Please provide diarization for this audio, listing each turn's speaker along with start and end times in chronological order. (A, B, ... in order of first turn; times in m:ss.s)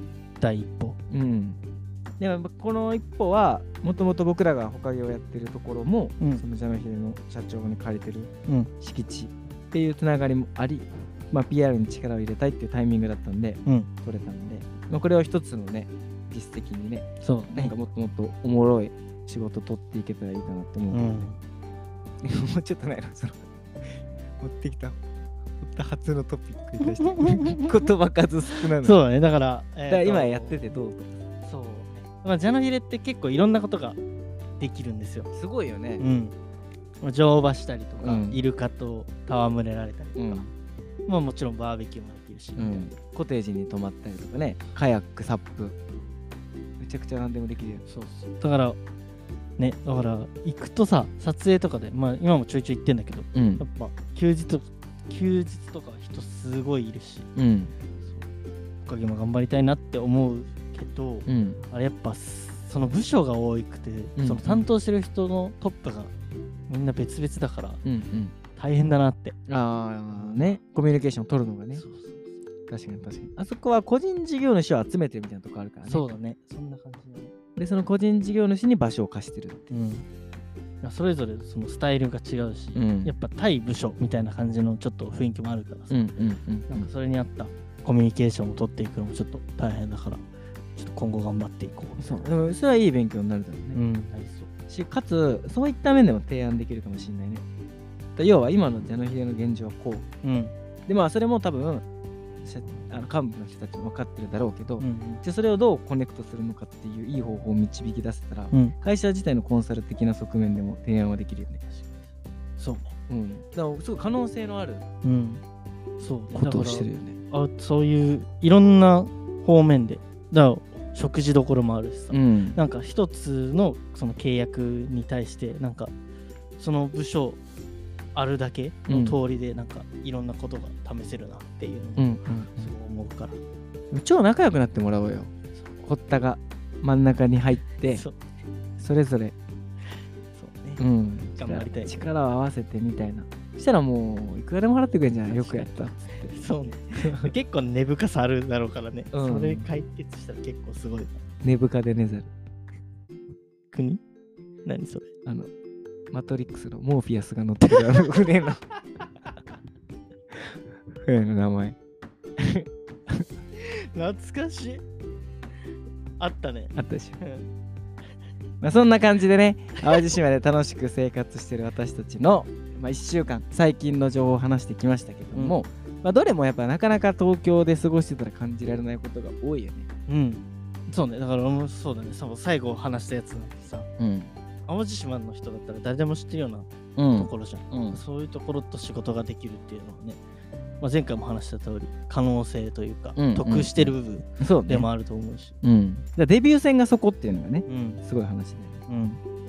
0:00.4-0:01.0 A
0:01.1-0:01.6 B
0:02.2-0:21.3 B
0:17.2-0:17.8 A
0:20.9-0:21.4 A
0:22.2-0:25.0 B
0:25.6-0:29.0 B
0:26.8-0:27.8 A
0:28.5-0:30.6 A
0:29.9-0:31.2 B
0:31.4-0:34.0 A
0:34.6-0:35.3 A
0:35.3-0:36.0 B
0:36.0-0:36.3 A
0:37.0-0:40.4 A
0:38.0-0:38.4 B
0:40.2-0:40.5 B
0:41.1-0:42.9 A
0:42.6-0:45.8 B
0:46.8-0:47.8 B
0:47.9-0:48.8 A
0:49.6-0:57.3 A
0:53.3-0:53.6 B
0:57.4-0:57.7 B
0:58.8-1:06.1 A
1:01.3-1:01.6 B
1:04.2-1:04.7 B
1:06.7-1:07.8 A
1:07.8-1:08.3 B
1:08.6-1:09.4 A
1:09.5-1:11.8 B
1:10.2-1:10.6 A
1:11.8-1:12.4 A
1:12.7-1:16.1 B
1:15.8-1:17.3 A
1:17.6-1:19.7 B
1:19.7-1:20.1 A
1:20.8-1:26.1 A
1:22.8-1:23.2 B
1:25.9-1:26.9 B
1:26.7-1:30.2 A
1:30.8-1:32.0 A
1:32.0-1:33.8 B
1:33.7-1:34.5 A
1:34.7-1:37.4 B
1:38.2-1:40.1 B
1:40.2-1:40.5 A
1:40.9-1:41.8 B
1:42.4-1:51.6 B
1:44.8-1:45.2 A
1:51.7-1:52.0 A
1:52.6-1:52.9 A
1:53.1-1:54.8 B
1:55.0-1:55.4 A
1:56.0-2:05.9 A
1:56.3-1:57.2 B
2:02.1-2:02.6 B
2:06.6-2:07.4 A
2:08.2-2:13.4 A
2:08.9-2:09.2 B
2:12.0-2:12.7 B
2:13.9-2:18.1 B
2:17.8-2:18.2 A
2:18.8-2:19.4 B
2:20.3-2:20.8 A
2:20.8-2:26.3 B
2:21.3-2:22.0 A
2:25.3-2:31.2 A
2:27.0-2:27.3 B
2:29.1-2:29.7 B
2:31.4-2:32.3 B
2:33.7-2:34.0 A
2:34.6-2:35.1 A
2:36.1-2:38.6 B
2:40.3-2:41.8 B
2:42.4-2:43.3 B
2:43.6-2:44.8 A
2:46.2-2:47.5 A
2:46.8-2:47.2 B
2:48.6-2:59.9 B
2:55.3-2:55.6 A
3:00.1-3:03.9 A
3:04.0-3:04.3 B
3:04.7-3:10.2 A
3:07.0-3:08.0 B
3:10.8-3:15.6 A
3:13.2-3:14.9 B
3:15.6-3:18.8 B
3:17.7-3:18.0 A
3:18.9-3:19.2 A